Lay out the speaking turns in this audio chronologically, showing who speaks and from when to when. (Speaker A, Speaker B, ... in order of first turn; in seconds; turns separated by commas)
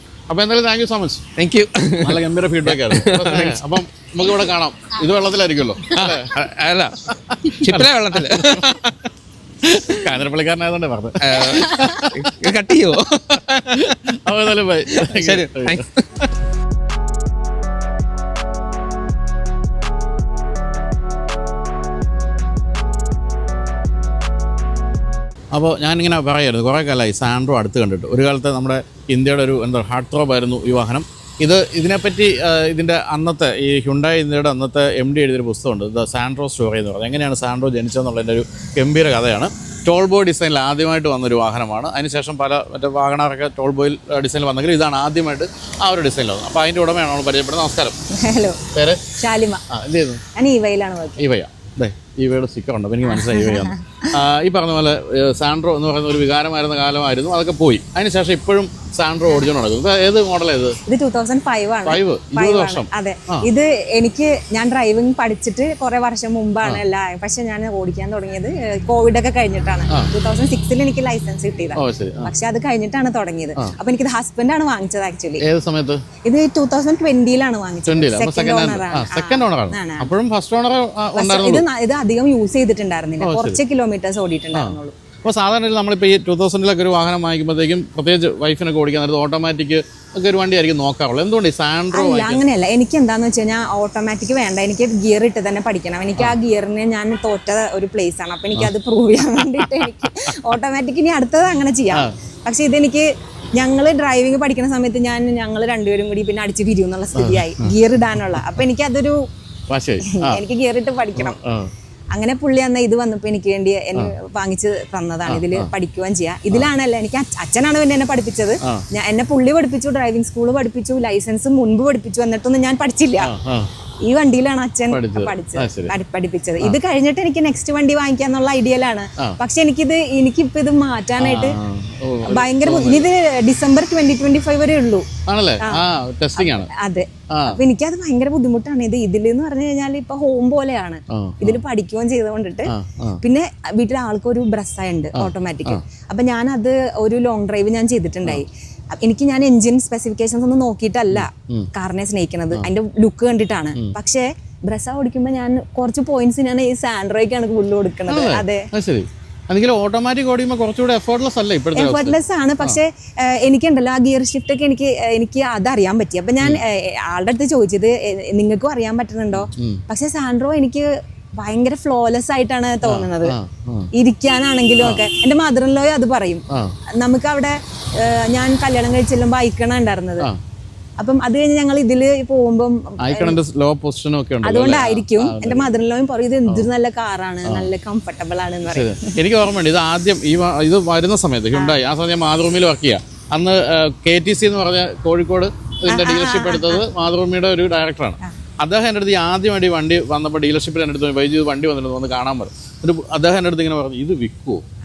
Speaker A: 0.3-1.2, Speaker B: 1.4-3.6, Speaker A: 2.0-6.5, Speaker B: 5.9-8.8, Speaker A: 7.1-8.9, Speaker A: 9.6-12.5, Speaker B: 11.2-13.9, Speaker A: 13.7-15.8, Speaker B: 14.9-16.3, Speaker A: 25.5-48.0, Speaker C: 48.1-48.6, Speaker A: 48.7-49.0, Speaker C: 49.1-49.6, Speaker A: 49.7-50.2, Speaker C: 50.3-51.2, Speaker A: 51.2-60.8, Speaker C: 53.1-54.1, Speaker C: 60.9-75.4, Speaker A: 61.8-63.5, Speaker A: 71.8-72.3, Speaker A: 75.4-76.0, Speaker C: 76.2-80.1, Speaker A: 77.9-81.6, Speaker C: 81.2-84.9, Speaker A: 83.2-83.6, Speaker A: 84.5-92.4, Speaker C: 91.9-109.2, Speaker A: 99.4-100.3, Speaker A: 107.2-107.8, Speaker A: 109.7-110.4, Speaker C: 110.0-111.4, Speaker A: 111.2-111.7, Speaker C: 112.1-123.3, Speaker A: 115.3-115.7, Speaker A: 123.2-123.7, Speaker C: 124.0-131.6, Speaker A: 124.9-125.9, Speaker A: 131.2-133.1, Speaker C: 132.2-135.1, Speaker A: 135.3-136.7, Speaker C: 136.4-158.7, Speaker A: 137.3-137.6, Speaker A: 141.1-141.6, Speaker A: 142.7-143.2, Speaker A: 145.2-145.8, Speaker A: 151.1-151.7, Speaker A: 158.1-162.8, Speaker C: 161.8-173.3, Speaker A: 169.3-169.8, Speaker A: 172.8-173.9, Speaker C: 173.9-176.4, Speaker C: 177.0-180.3, Speaker C: 181.0-183.4, Speaker A: 183.0-185.7, Speaker C: 184.4-189.2, Speaker A: 188.7-204.6, Speaker C: 195.9-196.8